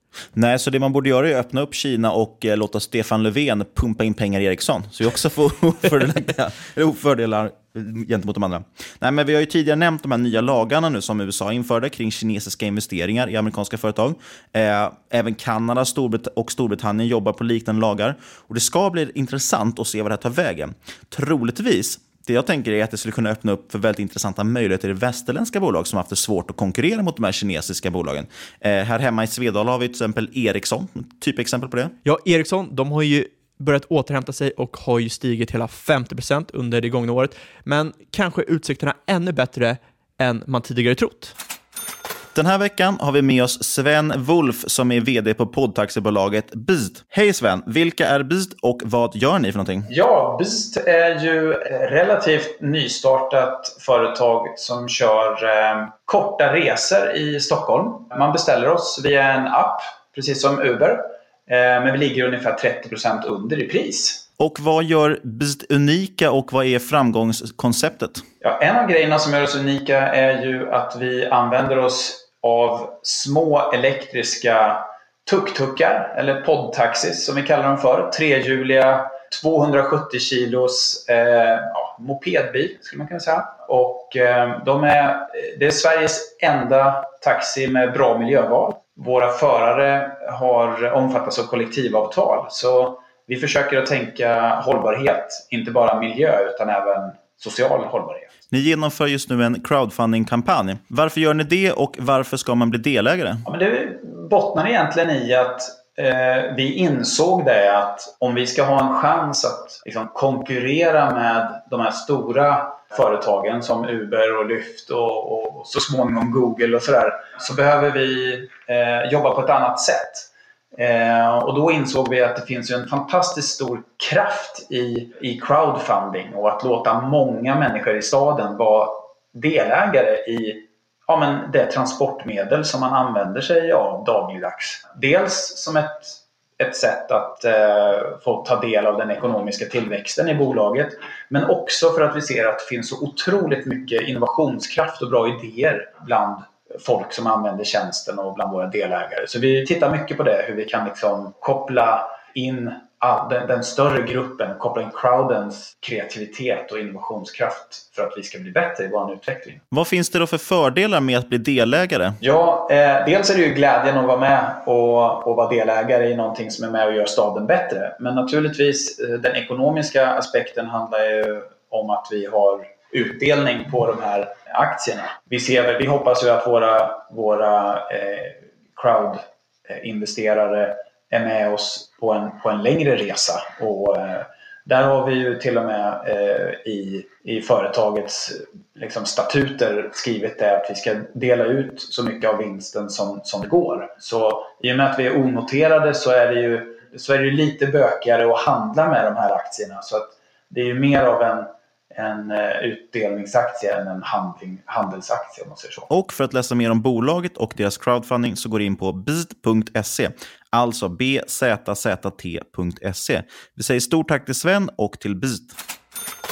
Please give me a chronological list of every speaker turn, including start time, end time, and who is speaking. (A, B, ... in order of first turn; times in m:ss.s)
0:00.3-0:31.9 A
0:32.0-0:41.3 B
0:42.3-0:49.9 A
0:49.9-1:04.2 C
1:04.4-1:08.2 A
1:08.4-1:38.3 C
1:38.5-1:43.4 A
1:43.4-2:39.6 C
2:39.7-2:42.2 A
2:42.2-3:25.9 C
3:25.9-3:35.6 A